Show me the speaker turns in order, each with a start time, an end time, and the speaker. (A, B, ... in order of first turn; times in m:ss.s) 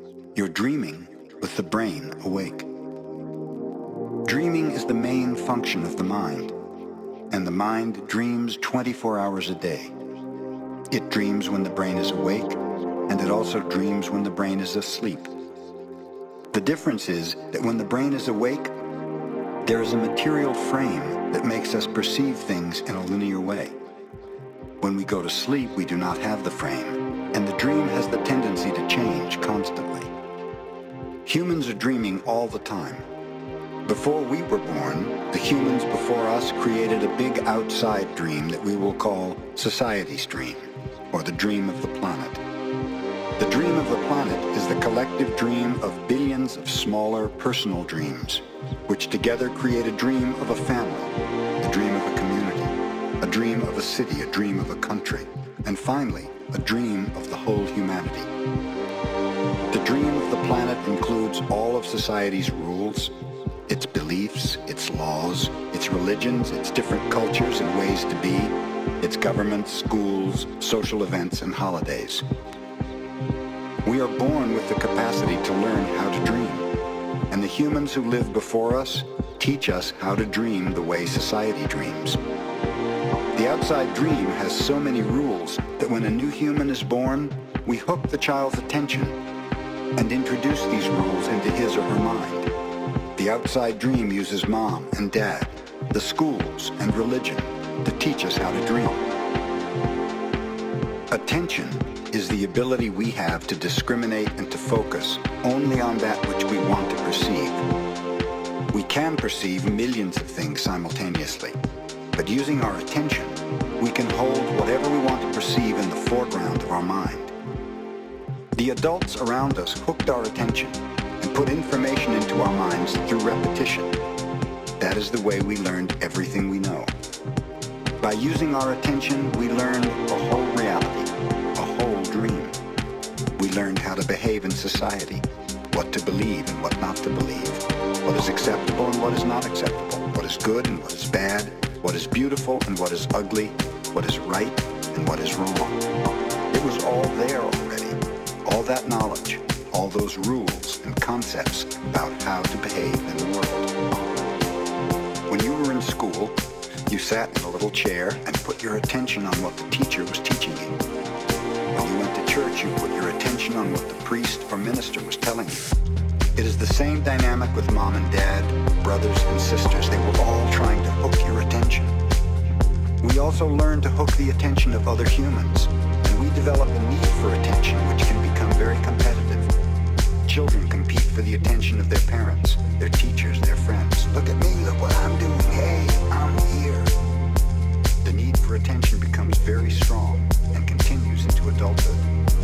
0:00.3-0:02.7 A
0:04.2-0:06.6 A
0:07.3-0:09.9 A
0:10.9-0:15.3 A
0:16.5-0:18.7 A
0:19.6-0:23.8 A
0:24.8-0:30.1 A
0:31.2-0:33.1 A
0:33.8-0:42.4 A
0:43.4-0:58.3 A
0:59.7-1:03.1 A
1:03.7-1:12.2 A
1:13.8-1:16.7 A
1:17.3-1:22.2 A
1:23.3-1:29.2 A
1:30.0-1:32.5 A
1:33.2-1:39.0 A
1:41.1-1:47.6 A
1:48.7-1:51.6 A
1:52.1-1:57.3 A
1:58.5-2:04.0 A
2:04.8-2:06.9 A
2:08.0-2:12.6 A
2:13.4-2:25.8 A
2:26.5-2:33.6 A
2:35.3-2:36.4 A
2:36.9-2:40.8 A
2:41.7-2:45.7 A
2:46.4-2:52.0 A
2:53.0-2:59.5 A
3:00.2-3:07.0 A
3:08.0-3:12.0 A